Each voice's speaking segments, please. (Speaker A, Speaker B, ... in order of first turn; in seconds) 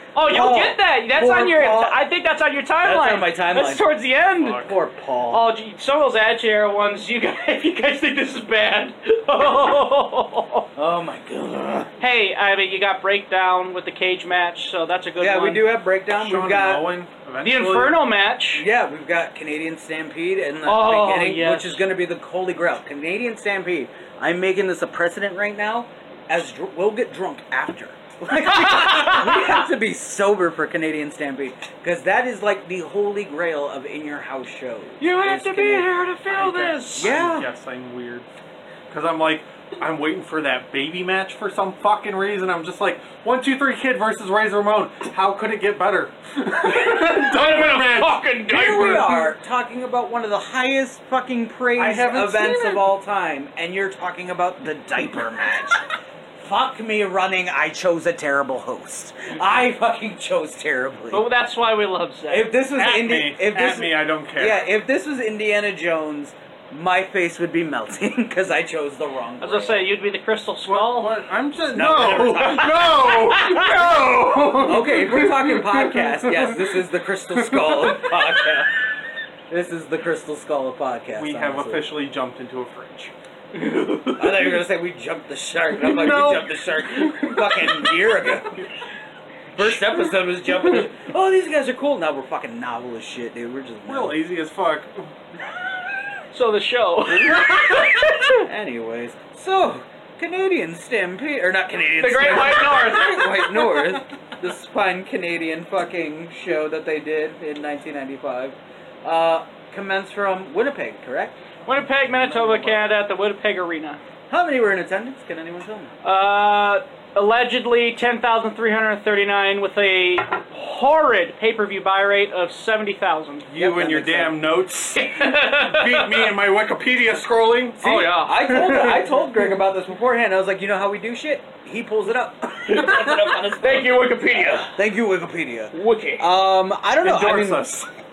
Speaker A: 0.1-4.7, 5.3-10.7, 12.0-15.6, 17.4-18.6, 20.6-21.8, 28.5-29.6, 35.0-37.1, 46.6-49.3, 61.1-62.6, 69.4-71.1, 83.5-84.3, 96.3-98.4, 102.0-103.6, 111.7-114.0, 116.0-123.5, 124.9-126.3, 127.8-129.2, 133.6-134.7, 135.7-136.3
Speaker B: 0.2-2.0, 2.8-3.8, 4.5-5.5, 10.7-11.9, 15.2-16.9, 18.5-35.9, 37.0-37.5, 48.5-55.9, 56.4-61.2, 62.3-69.9, 71.7-73.6, 74.5-78.7, 79.5-81.9, 84.2-88.6, 89.5-94.1, 97.2-111.3, 114.3-115.9, 123.6-124.4, 127.8-137.7
Speaker C: 4.4-4.7, 16.1-18.0, 36.3-38.3, 38.9-48.2, 51.8-52.9, 62.8-64.6, 70.7-76.6, 77.5-78.0, 81.1-83.1, 85.8-86.5, 93.9-95.0, 111.9-112.8, 123.5-128.8, 137.0-137.9